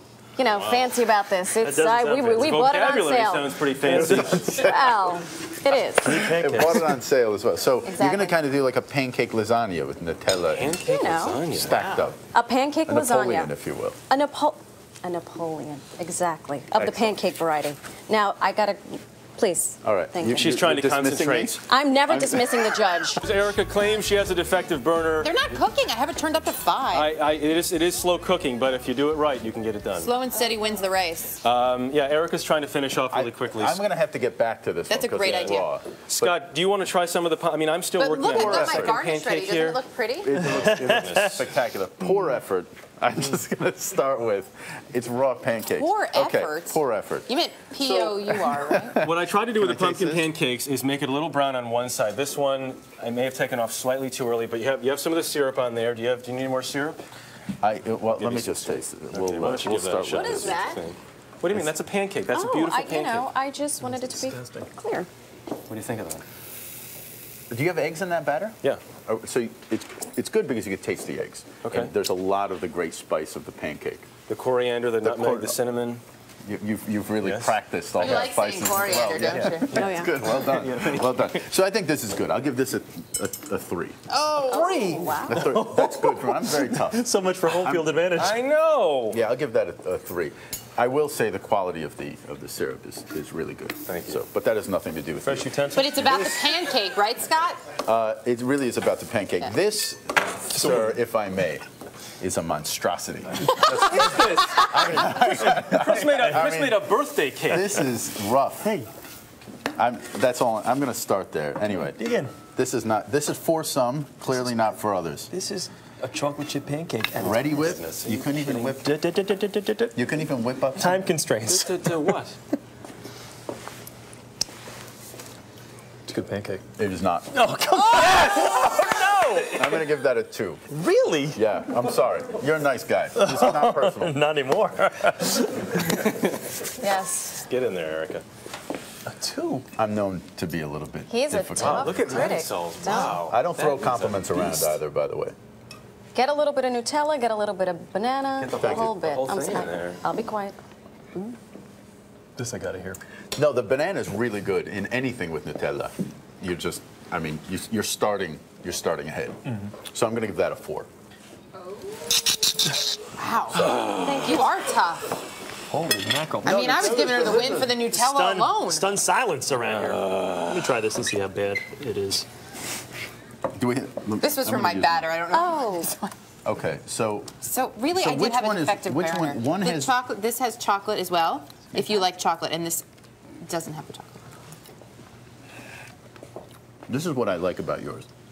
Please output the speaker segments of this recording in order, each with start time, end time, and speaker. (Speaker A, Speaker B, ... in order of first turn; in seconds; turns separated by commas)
Speaker A: 0.4-3.5, Speaker B: 0.5-0.9, Speaker C: 1.6-2.6, Speaker B: 2.4-4.6, Speaker D: 3.9-5.1, Speaker C: 3.9-4.5, Speaker A: 4.4-6.3, Speaker C: 6.0-6.9, Speaker D: 6.1-10.8, Speaker A: 7.8-8.4, Speaker B: 10.5-12.0, Speaker A: 10.8-11.4, Speaker D: 11.5-12.2, Speaker A: 12.3-13.5, Speaker D: 12.9-14.0, Speaker A: 14.1-20.5, Speaker D: 16.8-17.2, Speaker D: 19.8-22.6, Speaker B: 20.3-21.6, Speaker A: 21.7-23.2, Speaker B: 23.2-25.4, Speaker E: 25.2-27.1, Speaker B: 26.9-30.1, Speaker E: 29.9-31.4, Speaker B: 31.4-33.8, Speaker D: 33.1-36.4, Speaker E: 34.9-35.7, Speaker B: 35.3-35.5, Speaker B: 36.1-39.8, Speaker E: 38.0-40.3, Speaker D: 38.2-39.0, Speaker D: 40.2-50.3, Speaker B: 40.4-41.5, Speaker C: 40.6-40.9, Speaker E: 45.7-49.0, Speaker B: 49.0-57.0, Speaker D: 57.6-60.6, Speaker B: 58.1-63.3, Speaker A: 60.1-60.8, Speaker A: 62.3-65.1, Speaker C: 64.1-64.6, Speaker B: 65.7-66.2, Speaker D: 67.5-74.1, Speaker B: 71.6-71.9, Speaker B: 74.3-76.0, Speaker D: 75.0-75.6, Speaker D: 76.5-84.0, Speaker B: 77.2-78.3, Speaker E: 78.0-79.8, Speaker B: 78.9-81.4, Speaker A: 79.7-80.2, Speaker E: 84.1-85.2, Speaker A: 84.5-85.5, Speaker D: 85.2-87.0, Speaker C: 85.3-88.4, Speaker B: 88.1-89.2, Speaker D: 89.1-96.4, Speaker B: 93.9-94.2, Speaker C: 95.2-96.2, Speaker E: 95.7-97.7, Speaker D: 97.8-101.6, Speaker C: 100.6-100.9, Speaker D: 102.2-106.9, Speaker B: 103.7-105.2, Speaker B: 105.7-107.7, Speaker D: 107.5-108.7, Speaker C: 108.6-108.9, Speaker D: 109.8-112.0, Speaker C: 111.8-112.3, Speaker D: 112.5-115.3, Speaker C: 115.3-117.8, Speaker D: 117.2-118.9, Speaker B: 117.3-118.2, Speaker C: 118.3-120.0, Speaker D: 119.9-121.1, Speaker C: 120.8-122.0, Speaker B: 121.4-122.4, Speaker C: 126.1-126.6, Speaker D: 126.8-127.3, Speaker C: 127.3-129.8, Speaker B: 128.1-128.6, Speaker D: 129.5-130.6, Speaker C: 130.7-131.4, Speaker D: 131.3-134.2, Speaker C: 133.2-136.1, Speaker A: 136.8-137.4, Speaker B: 137.4-138.2, Speaker C: 139.1-139.6, Speaker D: 139.7-142.1, Speaker A: 141.1-143.2, Speaker B: 141.6-144.8, Speaker D: 143.0-145.3, Speaker A: 146.1-150.6, Speaker B: 148.4-150.0, Speaker D: 148.6-149.0, Speaker C: 152.4-153.0, Speaker D: 153.3-160.9, Speaker E: 163.2-165.1, Speaker A: 163.9-164.5, Speaker C: 165.7-172.3, Speaker E: 166.4-168.9, Speaker D: 173.6-175.1, Speaker E: 174.2-176.1, Speaker A: 175.3-175.9, Speaker D: 176.4-177.3, Speaker E: 177.4-182.8, Speaker D: 177.9-179.9, Speaker E: 183.4-184.2, Speaker D: 186.9-188.1